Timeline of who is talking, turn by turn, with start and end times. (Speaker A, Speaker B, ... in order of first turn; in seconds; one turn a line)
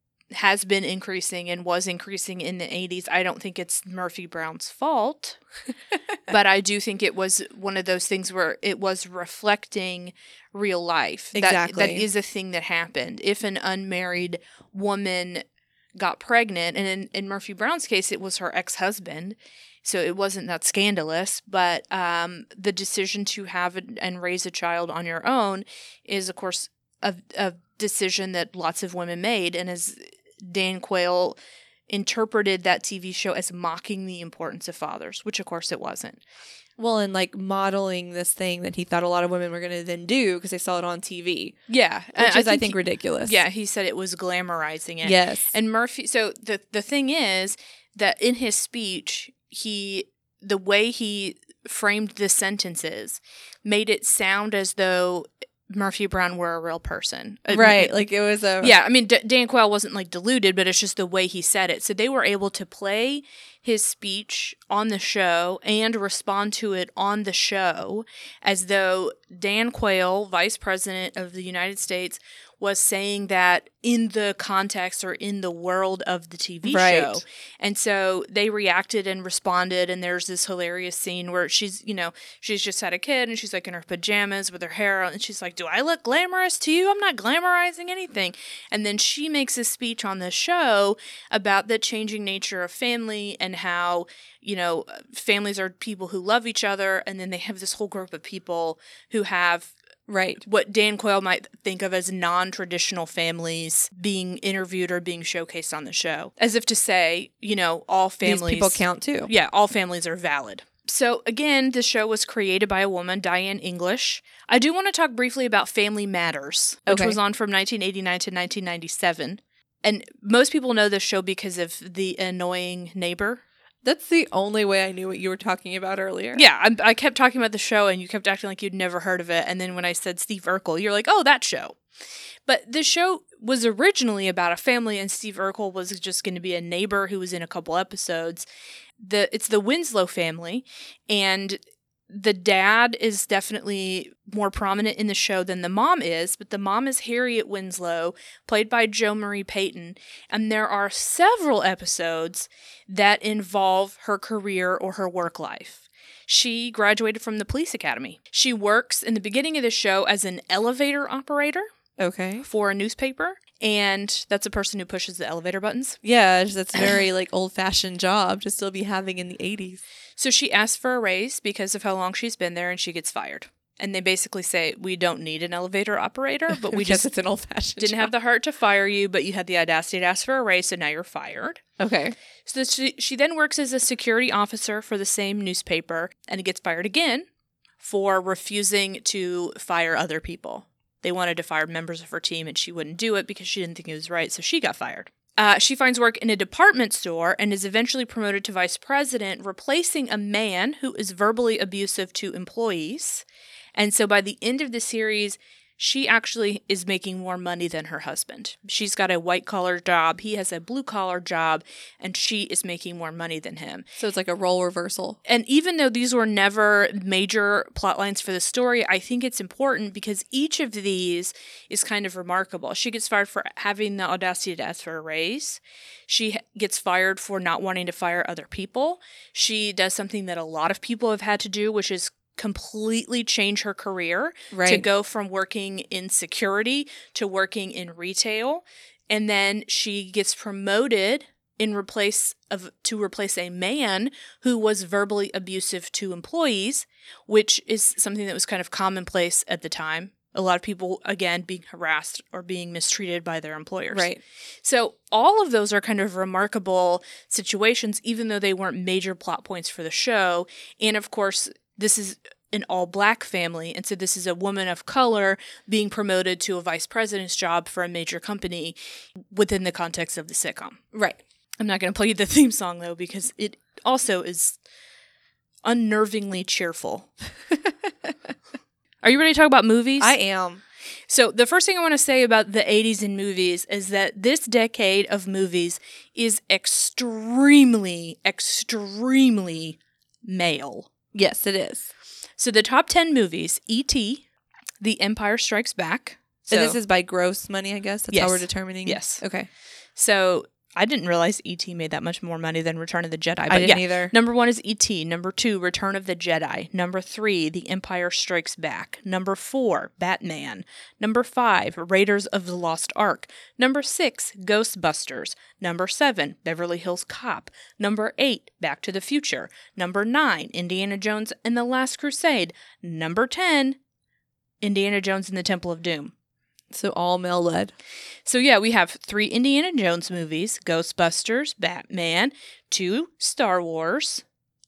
Speaker A: 0.3-5.4
Speaker A: 6.3-15.4
Speaker B: 11.3-12.1
Speaker A: 16.0-31.4
Speaker A: 31.9-36.2
Speaker B: 36.8-41.6
Speaker A: 41.7-58.0
Speaker B: 42.1-43.4
Speaker B: 45.0-45.5
Speaker B: 57.5-58.8
Speaker A: 58.6-99.7
Speaker B: 76.6-77.2
Speaker B: 100.1-100.4
Speaker A: 100.4-123.4
Speaker B: 108.2-109.3
Speaker B: 116.9-117.2
Speaker B: 123.8-126.4
Speaker A: 126.3-131.8
Speaker A: 132.5-138.5
Speaker A: 139.0-161.7
Speaker B: 162.0-162.5
Speaker A: 162.4-166.0
Speaker B: 166.0-169.8
Speaker A: 170.2-177.1
Speaker B: 176.5-178.1
Speaker A: 177.8-181.6
Speaker B: 181.8-182.2
Speaker A: 182.5-187.3
Speaker A: 187.8-213.9
Speaker B: 214.0-215.2
Speaker A: 215.3-254.1
Speaker B: 234.5-234.9
Speaker B: 253.9-254.2
Speaker A: 254.6-268.8
Speaker A: 269.3-270.8
Speaker B: 270.9-271.2
Speaker A: 271.6-274.6
Speaker A: 275.6-277.1
Speaker B: 277.7-278.1
Speaker A: 279.0-280.2
Speaker B: 280.0-280.6
Speaker A: 281.1-290.9
Speaker B: 291.1-291.9
Speaker A: 292.4-294.2
Speaker A: 294.8-296.8
Speaker B: 296.5-299.5
Speaker A: 298.1-299.2
Speaker A: 300.0-323.8
Speaker B: 303.5-304.1
Speaker A: 324.6-326.1
Speaker B: 326.7-327.7
Speaker A: 328.3-334.2